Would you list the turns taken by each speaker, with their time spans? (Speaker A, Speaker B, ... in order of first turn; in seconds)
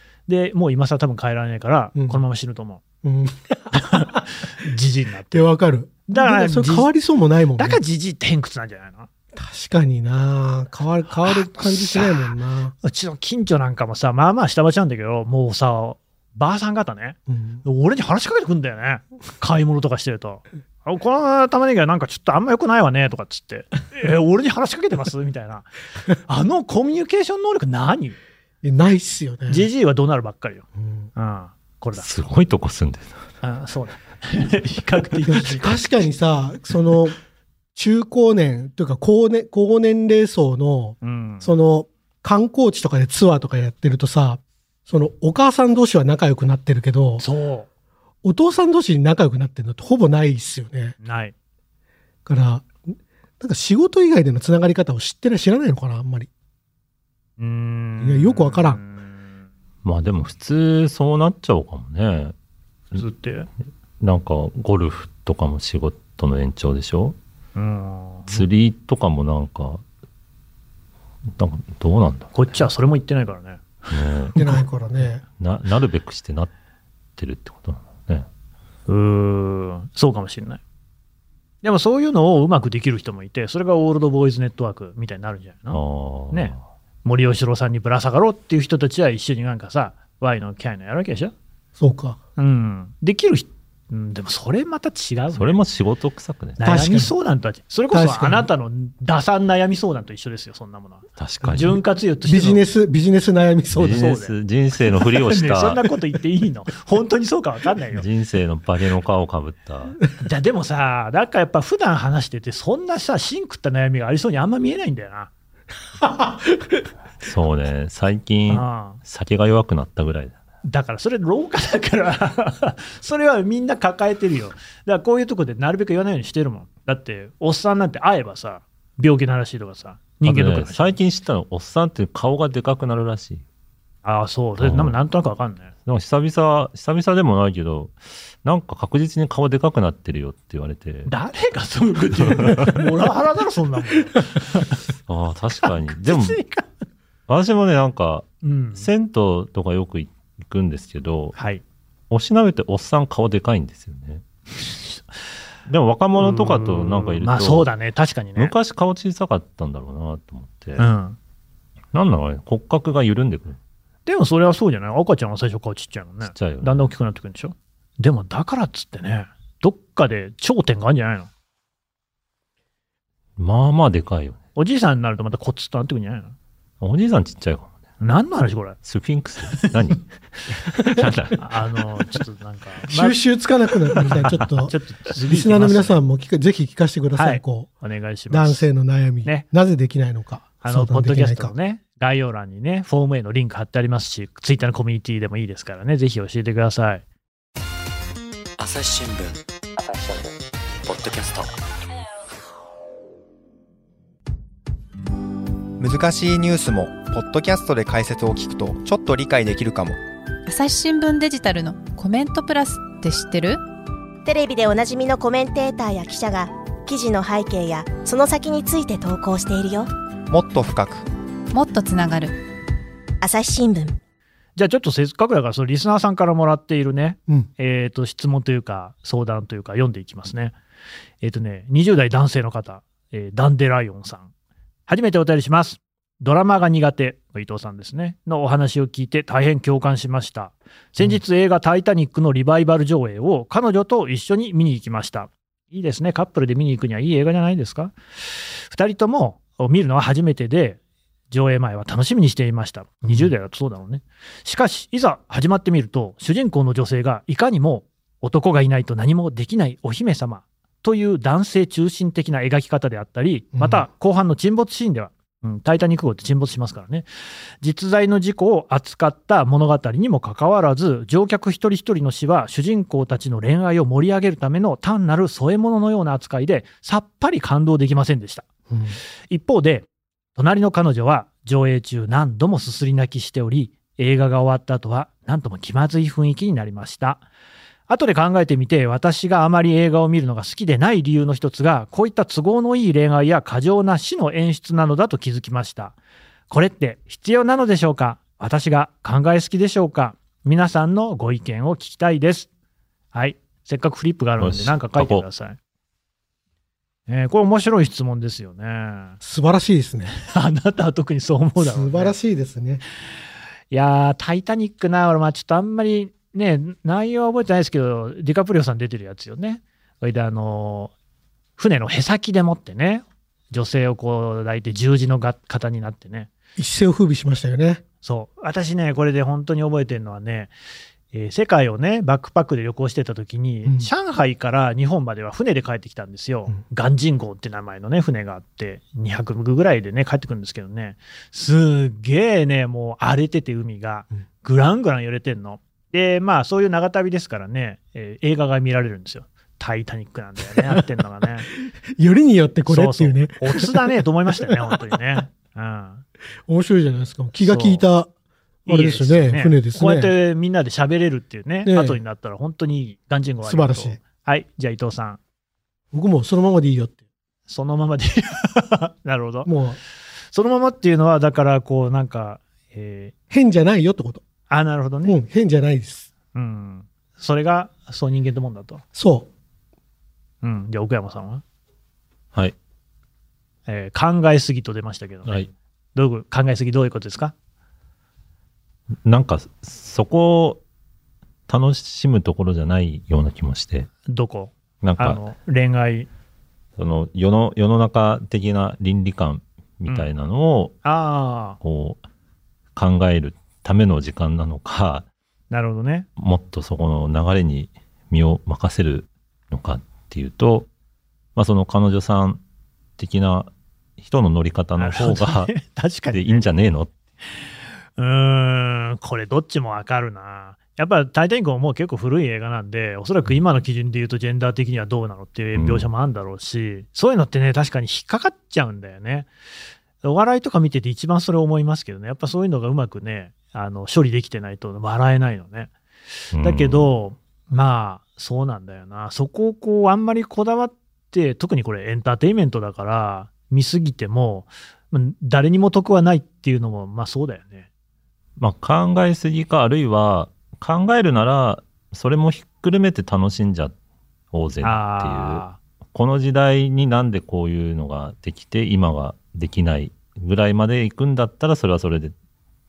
Speaker A: 0.3-2.8, 3.7-5.5, 6.1-6.9, 7.6-9.1, 11.2-12.1, 12.8-25.7, 26.2-28.2, 29.5-32.1, 33.4-35.8, 41.0-41.5, 47.2-47.7, 51.0-51.3, 57.4-59.3, 62.9-63.5, 67.5-68.4, 72.3-74.5, 78.9-80.6, 81.6-85.8, 86.3-91.3, 92.4-95.6, 96.6-102.6, 103.9-104.3, 105.1-108.0, 110.2-115.3, 118.5-119.0, 120.6-130.9, 134.0-135.7, 141.1-144.8, 145.6-146.7, 148.4-148.9, 151.3-151.6, 156.2-158.5, 160.8-161.2, 164.1-171.3, 174.5-176.3, 178.0-178.8, 181.3-183.2, 184.0-186.0, 187.1-188.7, 190.6-197.0, 224.6-230.6, 231.2-234.3, 234.9-250.8, 251.3-267.1, 267.6-278.5, 279.3-287.2, 287.9-296.0, 296.5-302.5, 303.1-305.6, 307.1-309.2, 310.2-312.1, 313.7-320.9, 321.6-326.3, 328.0-330.5, 331.1-351.5, 352.6-356.0, 357.4-357.8, 358.6-365.2, 367.5-369.5, 370.3-373.1, 374.5-375.1, 376.3-378.8, 380.4-381.4, 383.7-385.4, 385.9-387.3, 394.1-396.1, 400.8-401.6, 405.5-406.1, 414.8-416.4, 418.0-429.3, 430.0-435.7, 436.4-447.6, 454.6-455.6
Speaker B: 1.9-2.2, 3.0-4.2, 5.3-7.8, 9.3-12.7, 17.3-17.6, 28.6-29.7, 30.8-31.1, 35.3-37.2, 37.7-47.2, 48.2-50.9, 52.2-52.8, 53.4-56.3, 58.0-58.8, 74.3-75.2, 91.8-92.2, 96.6-97.1, 97.9-98.5, 102.2-104.1, 116.0-116.7, 182.9-187.7, 188.3-191.5, 263.5-263.9, 278.7-279.0, 309.2-310.1, 311.6-312.8, 326.6-327.8, 333.6-333.9, 351.6-353.9, 354.5-354.9, 356.5-358.1, 358.7-360.1, 361.6-362.0, 363.4-364.0, 365.9-367.0, 369.4-369.8, 373.3-374.2, 375.0-376.1, 378.9-379.3
Speaker C: 32.0-33.2, 59.8-62.3, 64.0-67.2, 68.3-69.8, 71.3-72.6, 73.9-74.3, 75.4-76.5, 77.2-78.3, 85.7-86.6, 95.3-96.6, 101.2-101.8, 103.7-105.8, 107.9-110.0, 117.2-120.3, 130.2-133.4, 134.6-135.0, 135.8-141.1, 142.3-142.8, 145.1-146.4, 147.3-151.3, 152.1-154.2, 155.7-157.7, 158.3-160.8, 161.9-163.6, 166.2-166.9, 173.4-174.4, 176.8-177.7, 178.8-181.4, 304.4-305.2, 385.2-385.5, 389.0-390.6, 391.5-393.9, 394.8-395.2, 396.8-400.8, 401.6-402.0, 402.8-405.1, 406.2-410.7, 411.4-412.4, 413.0-415.5, 416.1-416.9, 425.5-425.9, 436.3-436.9, 448.4-453.7, 454.3-462.1
Speaker D: 198.6-200.3, 200.8-201.5
Speaker E: 205.8-210.0, 220.3-221.0
Speaker F: 210.5-213.6, 221.5-222.3
Speaker G: 214.2-219.9, 223.2-224.0